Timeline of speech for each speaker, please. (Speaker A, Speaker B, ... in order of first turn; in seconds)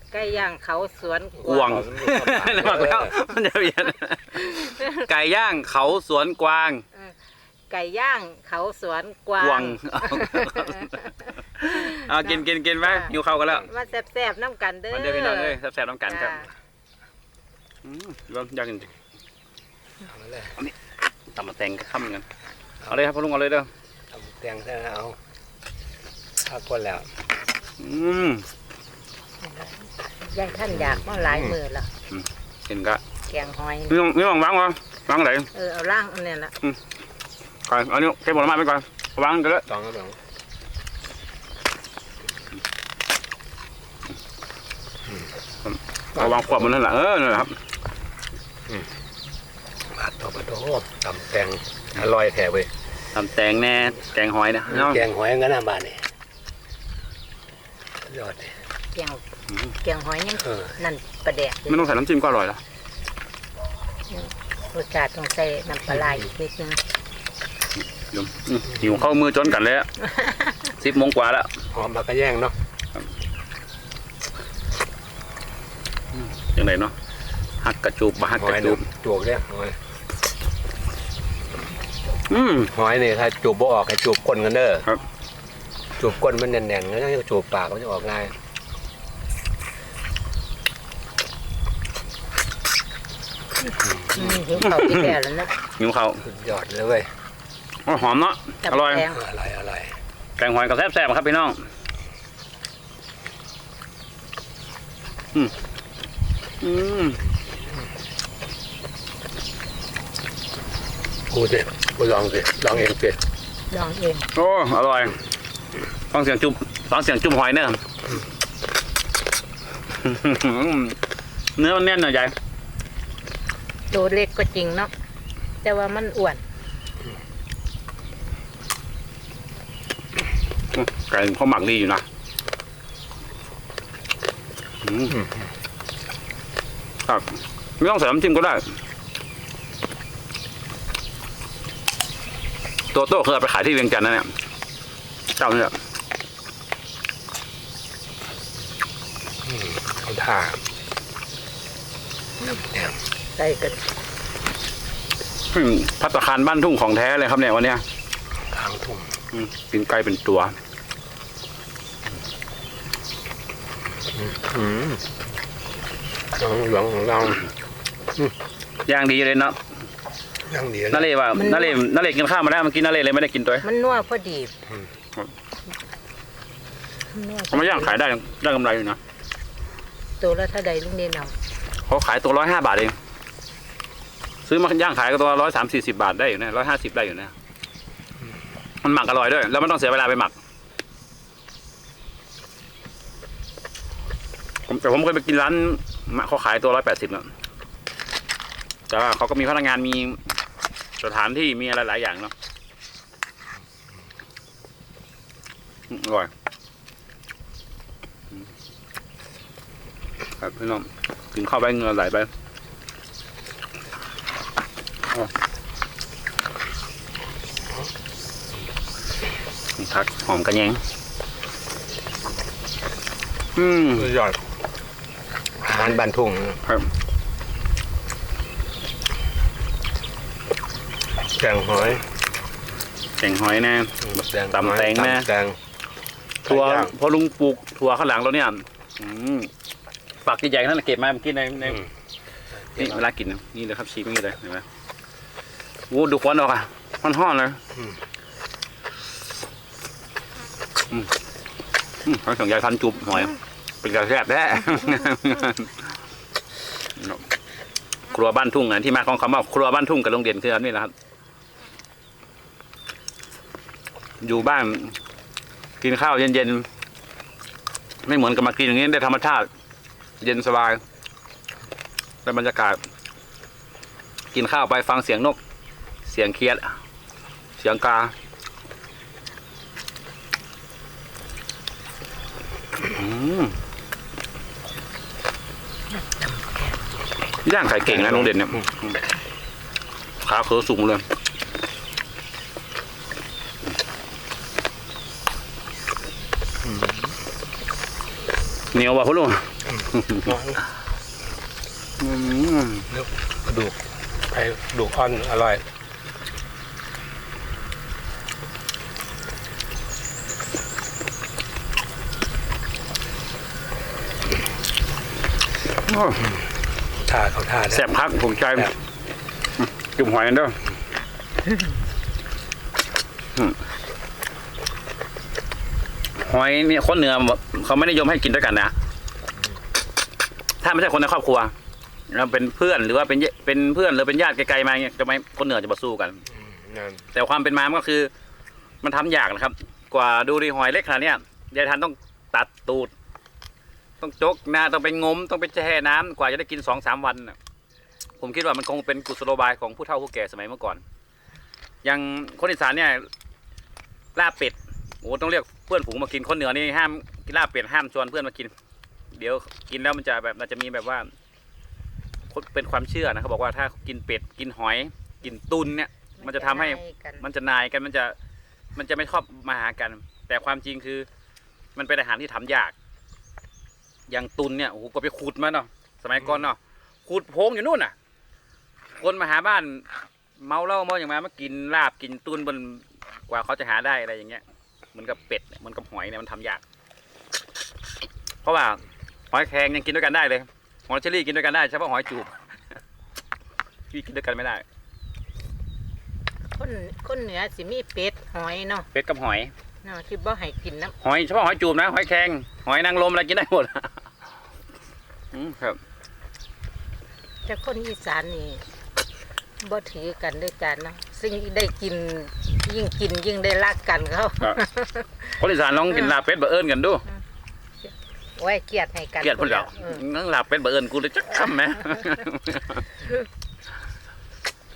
Speaker A: 0.1-1.9, 4.5-4.9, 7.7-11.1, 11.6-16.5, 29.4-31.9, 33.3-34.0, 35.5-36.5, 58.9-59.2, 59.8-62.0, 64.1-66.8, 70.1-70.5, 93.7-95.5, 98.6-99.2, 113.7-114.2, 123.9-124.9, 125.6-126.4, 153.4-153.8, 171.3-171.8, 173.6-174.5, 177.1-177.9, 180.2-181.3, 366.2-367.2, 396.5-398.9, 399.8-400.9, 407.4-408.6, 409.6-416.1, 418.4-420.0
Speaker B: 1.4-6.8, 9.4-13.7, 14.9-16.4, 17.8-18.9, 21.3-22.2, 22.9-23.7, 27.8-28.5, 32.1-33.0, 33.9-35.5, 37.7-39.7, 45.6-47.6, 53.1-55.0, 61.7-62.6, 68.0-69.9, 70.6-71.5, 76.3-76.9, 77.6-78.8, 82.3-82.7, 94.2-95.1, 95.7-96.2, 97.8-99.1, 100.4-101.6, 106.6-107.2, 114.3-115.2, 116.1-117.8, 119.9-121.0, 121.6-122.3, 130.7-132.0, 134.8-135.2, 137.1-138.7, 142.9-144.3, 145.3-145.8, 155.5-157.8, 159.3-160.5, 168.8-169.6, 170.9-173.7, 177.5-179.0, 181.9-182.9, 184.4-187.3, 188.8-190.3, 194.7-197.3, 198.9-200.2, 201.0-202.3, 205.9-206.3, 210.4-212.3, 219.8-220.8, 223.6-224.1, 233.2-235.3, 236.4-239.5, 240.2-241.9, 242.7-244.6, 245.9-247.6, 252.0-255.7, 258.1-260.9, 264.2-265.0, 265.8-266.7, 268.0-269.5, 270.2-270.8, 272.2-272.8, 274.3-275.4, 276.0-276.8, 277.6-278.1, 282.8-283.6, 287.4-289.0, 290.2-291.0, 298.7-300.4, 302.0-302.9, 315.9-316.3, 317.7-318.7, 319.6-320.6, 326.2-328.7, 330.6-331.5, 332.1-336.2, 337.1-338.1, 338.8-342.9, 344.0-347.4, 348.2-350.8, 351.8-353.1, 354.1-358.5, 359.1-361.1, 362.3-368.1, 368.7-371.1, 371.8-372.7, 374.1-377.9, 379.0-379.9, 380.4-384.4, 384.9-386.6, 388.4-392.4, 393.9-394.6, 398.9-399.5, 401.0-403.9, 405.3-405.8, 415.4-417.0, 419.2-423.0
Speaker C: 1.6-3.1, 20.0-20.5, 24.1-25.2, 26.4-27.1, 30.7-31.6, 39.7-40.2, 49.9-52.7, 54.7-56.0, 58.0-58.5, 60.4-60.8, 71.7-72.5, 78.3-79.8, 82.7-84.8, 86.0-88.3, 93.8-94.2, 96.2-97.1, 99.1-99.9, 111.3-113.2, 135.1-135.4, 149.4-150.6, 152.4-152.9, 158.5-159.1, 164.1-165.0, 166.3-167.5, 170.4-171.1, 223.9-224.4, 225.6-226.6, 231.3-232.1, 234.0-235.6, 236.4-236.9, 242.8-243.0, 296.6-297.1, 300.1-300.6, 302.9-305.6, 317.1-317.9, 336.3-337.1